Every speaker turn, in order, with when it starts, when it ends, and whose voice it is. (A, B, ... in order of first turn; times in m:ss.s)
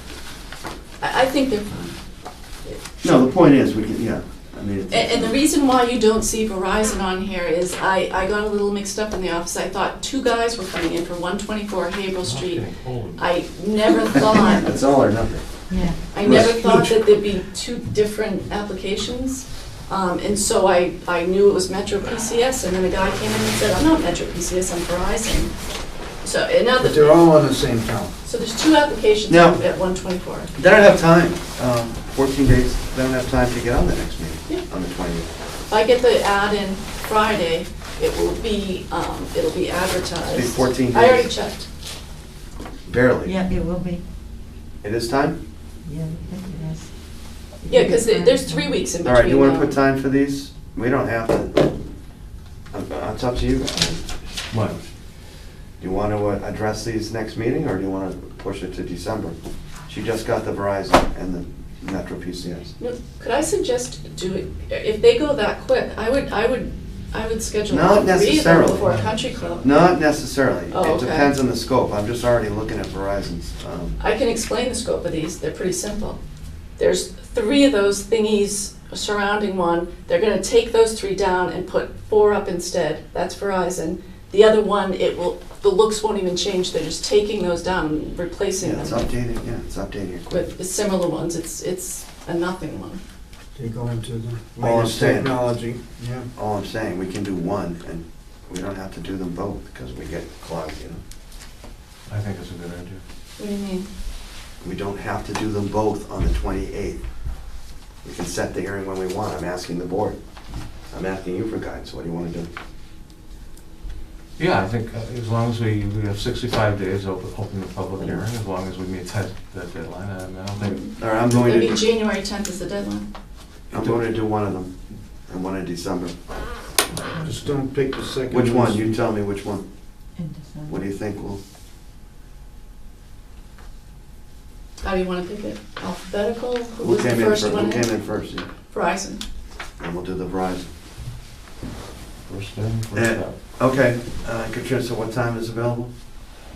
0:01.0-0:02.0 A
0:03.0-0:05.4 B
0:04.9-0:14.8 A
0:12.2-0:13.2 C
0:14.1-0:15.4 B
0:15.7-0:16.0 D
0:16.1-0:25.5 A
0:16.2-0:17.0 B
0:26.2-0:27.3 A
0:26.8-0:28.1 E
0:28.2-0:30.5 A
0:29.3-0:29.6 B
0:30.5-0:35.3 B
0:35.7-0:41.7 A
0:40.2-0:41.3 B
0:42.8-0:43.4 B
0:43.2-0:44.0 D
0:44.8-0:45.4 B
0:45.8-0:46.9 D
0:47.6-0:48.8 D
0:47.7-0:49.8 A
0:49.0-0:51.7 B
0:52.7-0:54.8 B
0:54.5-0:54.8 C
0:55.8-0:59.4 B
0:59.9-1:02.7 B
1:02.8-1:09.7 A
1:07.7-1:09.0 B
1:08.8-1:09.6 C
1:09.6-1:14.0 B
1:10.7-1:11.3 A
1:14.0-1:16.2 A
1:16.8-1:29.0 A
1:28.6-1:30.4 B
1:30.3-1:33.0 A
1:33.6-1:36.3 E
1:34.6-1:35.4 B
1:36.3-1:41.0 B
1:42.1-1:43.0 C
1:43.4-1:43.9 A
1:44.6-1:47.0 B
1:48.0-1:50.2 B
1:50.9-1:52.5 B
1:54.4-2:00.9 C
2:00.7-2:03.0 A
2:00.9-2:01.8 B
2:03.7-2:04.7 B
2:05.3-2:06.1 B
2:06.9-2:07.4 D
2:07.2-2:08.9 E
2:08.3-2:09.6 B
2:10.2-2:10.8 D
2:10.7-2:11.4 B
2:14.8-2:17.9 A
2:16.8-2:18.5 B
2:18.7-2:19.2 A
2:19.8-2:20.7 B
2:22.3-2:23.4 C
2:22.9-2:25.9 B